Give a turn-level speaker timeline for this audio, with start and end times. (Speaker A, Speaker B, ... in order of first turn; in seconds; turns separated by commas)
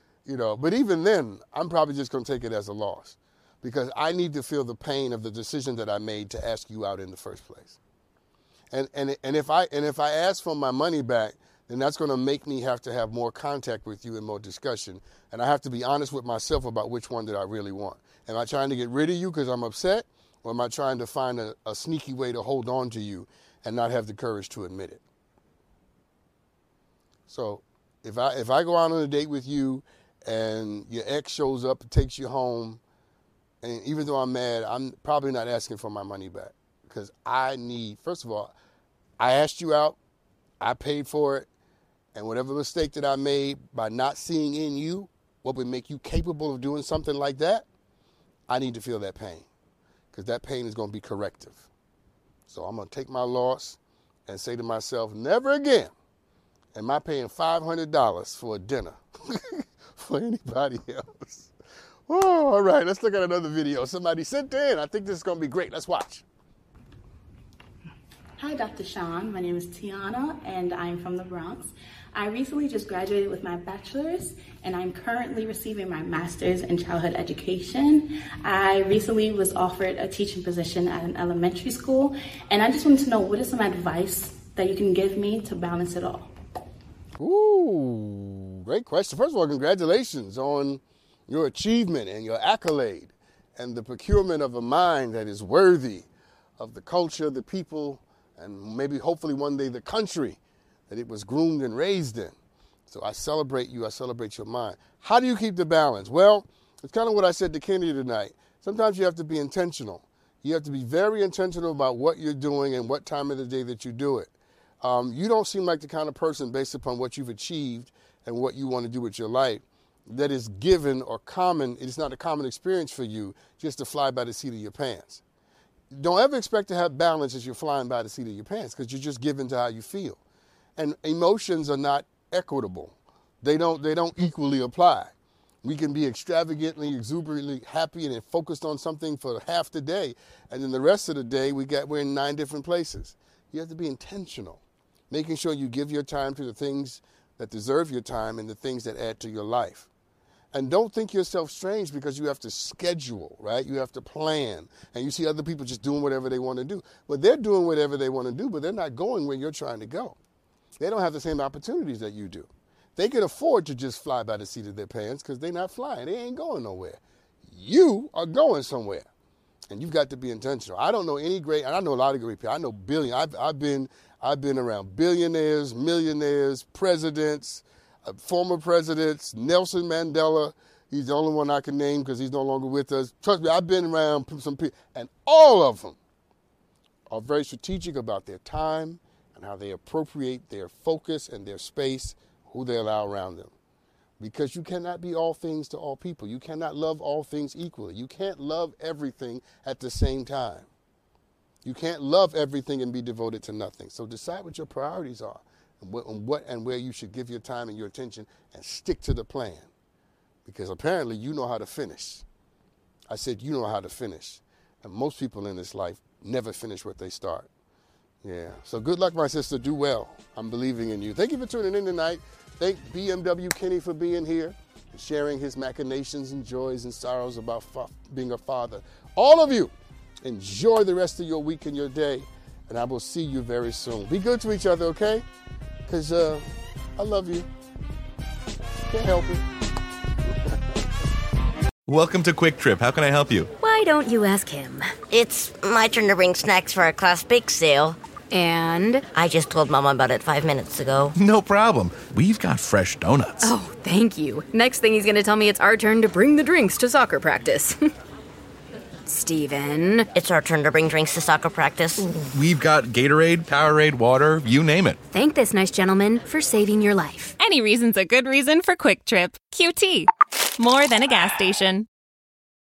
Speaker A: 0.3-7.8, Speaker A: 8.7-25.0, Speaker A: 27.3-32.8, Speaker A: 33.6-38.5, Speaker A: 39.2-40.0, Speaker A: 40.6-41.5, Speaker A: 42.1-47.6, Speaker A: 48.5-49.5, Speaker A: 50.1-51.7, Speaker A: 52.5-55.9, Speaker A: 56.7-61.5, Speaker A: 62.1-66.2, Speaker B: 68.4-86.3, Speaker A: 87.2-96.1, Speaker A: 96.6-100.4, Speaker A: 100.9-102.3, Speaker A: 102.9-125.2, Speaker A: 125.9-130.2, Speaker A: 130.8-135.1, Speaker A: 135.6-149.9, Speaker A: 150.5-160.2, Speaker A: 160.8-169.1, Speaker A: 169.7-186.0, Speaker A: 187.1-193.5, Speaker A: 194.2-200.7, Speaker A: 201.7-209.7, Speaker A: 210.4-212.2, Speaker A: 213.1-217.5, Speaker A: 218.2-229.7, Speaker A: 230.2-235.2, Speaker A: 235.9-237.5, Speaker A: 238.9-239.5, Speaker C: 241.9-243.5, Speaker D: 243.6-245.0, Speaker E: 245.1-248.0, Speaker D: 248.3-249.1, Speaker E: 249.1-251.1, Speaker C: 251.2-253.5, Speaker D: 253.4-257.9, Speaker D: 259.1-260.1, Speaker E: 260.1-262.1, Speaker C: 262.3-265.0, Speaker D: 265.1-267.4, Speaker F: 267.4-271.9